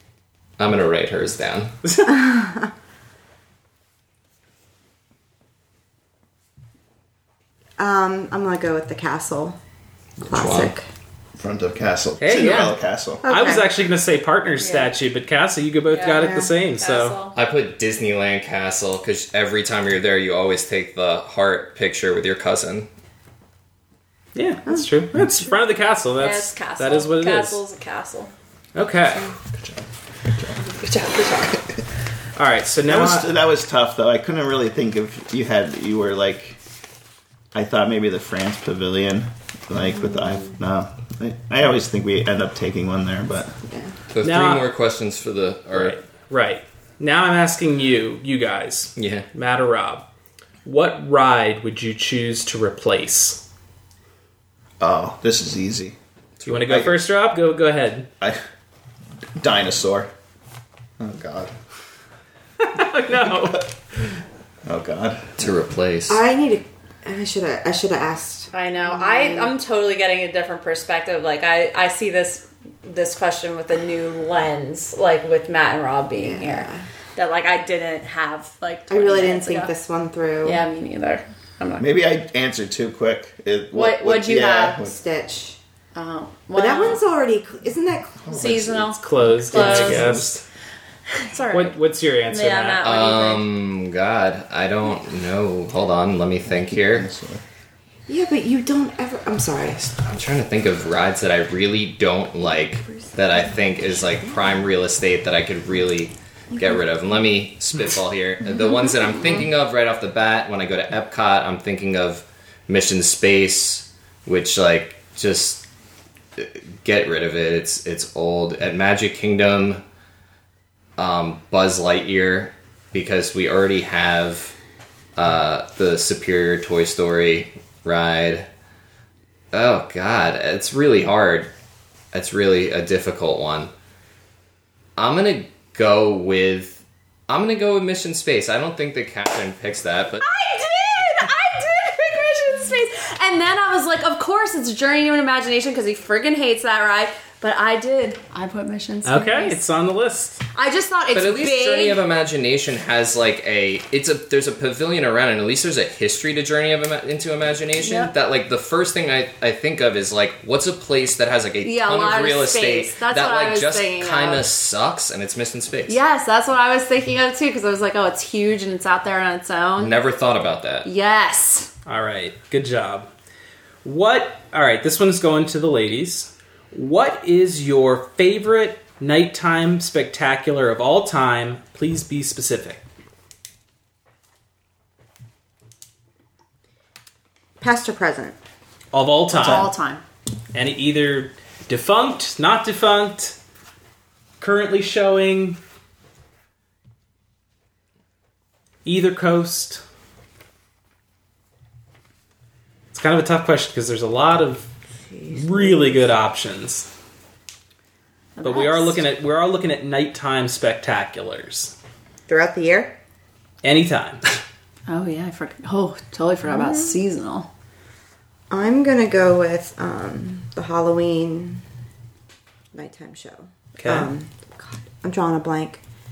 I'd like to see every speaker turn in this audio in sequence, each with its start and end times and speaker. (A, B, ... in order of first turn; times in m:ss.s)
0:00.6-0:01.8 A
0:01.8-0:02.2 B
0:02.0-0:02.7 C
0:07.8-0:09.6 C
0:10.2-0:10.7 A
0:10.3-0:10.8 C
0:11.4-0:13.2 D
0:12.2-0:17.2 B
0:13.2-0:13.7 C
0:14.6-0:14.9 E
0:15.9-0:17.4 E
0:16.1-0:16.5 C
0:17.4-0:22.9 A
0:24.4-0:27.6 B
0:26.2-0:28.3 E
0:28.8-0:29.4 B
0:29.4-0:30.6 D
0:30.9-0:31.3 E
0:32.4-0:33.3 B
0:32.9-0:36.6 D
0:37.5-0:43.6 D
0:43.7-0:43.9 C
0:44.1-0:46.0 A
0:44.2-0:44.7 B
0:45.7-0:50.1 B
0:49.0-0:49.3 A
0:50.6-0:53.4 B
0:54.8-0:56.0 D
0:56.5-0:58.1 B
0:56.7-0:57.0 D
0:59.4-1:00.1 D
1:01.0-1:01.5 D
1:02.6-1:03.7 B
1:03.2-1:03.6 D
1:04.7-1:05.5 D
1:05.4-1:06.2 A
1:06.1-1:09.5 C
1:08.5-1:19.7 E
1:16.2-1:16.9 C
1:18.9-1:20.6 C
1:20.4-1:21.9 E
1:21.8-1:25.0 D
1:23.7-1:24.8 E
1:24.8-1:25.6 C
1:26.0-1:27.0 E
1:26.6-1:28.8 C
1:28.2-1:30.4 D
1:28.3-1:30.1 E
1:28.9-1:30.4 B
1:31.1-1:31.8 E
1:31.5-1:32.8 B
1:32.3-1:33.4 E
1:32.8-1:37.1 A
1:36.7-1:37.4 D
1:38.1-1:39.9 C
1:39.8-1:55.7 A
1:42.8-1:44.5 C
1:56.4-1:59.8 A
2:01.0-2:04.5 A
2:05.2-2:08.5 A
2:09.5-2:11.5 A
2:12.1-2:13.7 A
2:15.0-2:20.3 A
2:20.2-2:29.6 E
2:29.0-2:30.4 B
2:30.6-2:32.0 E
2:31.1-2:46.0 A
2:37.8-2:38.1 E
2:41.6-2:44.4 E
2:45.9-2:49.9 E
2:49.8-2:50.9 A
2:50.8-2:51.7 E
2:51.9-2:53.1 B
2:53.8-3:02.8 B
3:07.6-3:08.4 C
3:08.9-3:09.7 B
3:09.3-3:10.0 E
3:10.5-3:13.4 B
3:14.4-3:15.6 B
3:18.8-3:19.8 B
3:22.9-3:24.7 B
3:25.1-3:26.0 C
3:25.3-3:26.9 B
3:28.4-3:29.0 E
3:28.4-3:31.8 B
3:32.3-3:33.0 C
3:33.6-3:34.3 B
3:34.9-3:37.5 E
3:36.5-3:37.0 C
3:38.5-3:41.6 C
3:42.7-3:45.8 C
3:43.8-3:44.1 B